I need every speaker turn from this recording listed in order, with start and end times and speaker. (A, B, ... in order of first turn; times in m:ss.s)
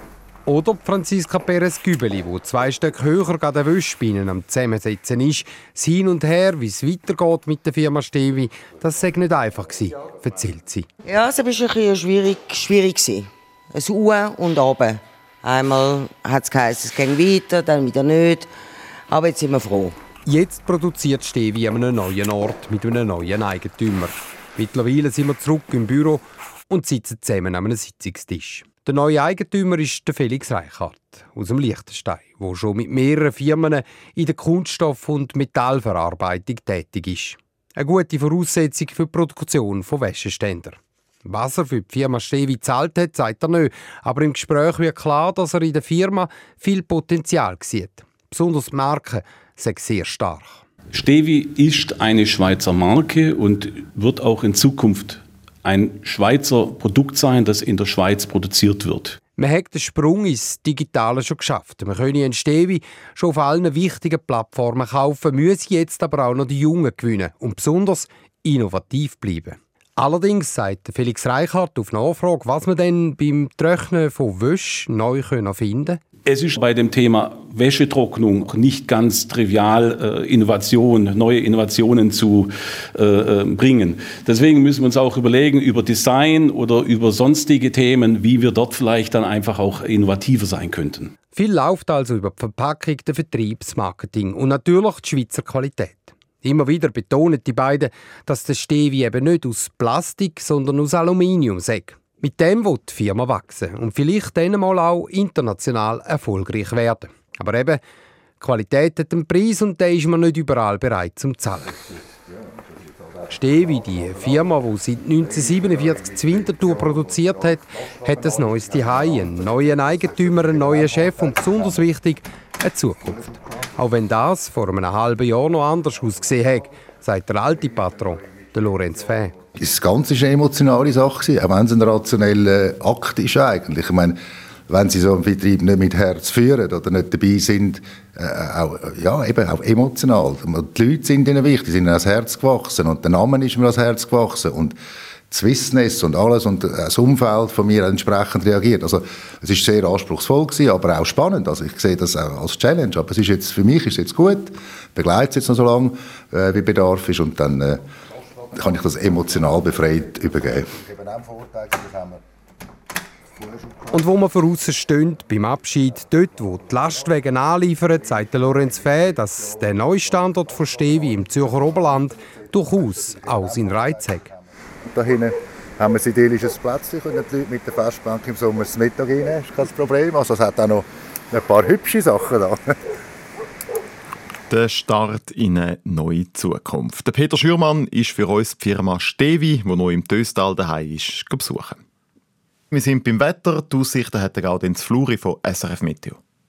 0:00.4-0:10.9 A
0:11.0-0:18.5 B
0:19.1-0:20.0 B
0:20.2-0:50.6 A
0:50.9-0:59.2 C
0:59.4-1:16.0 A
1:16.2-1:31.1 C
1:31.4-1:47.8 A
1:48.4-1:51.9 A
1:53.3-2:09.4 A
2:09.5-2:24.8 D
2:25.3-2:37.8 D
2:38.5-2:42.2 D
2:43.9-2:54.3 A
2:54.9-3:02.7 D
3:04.5-3:11.8 E
3:12.7-3:16.2 E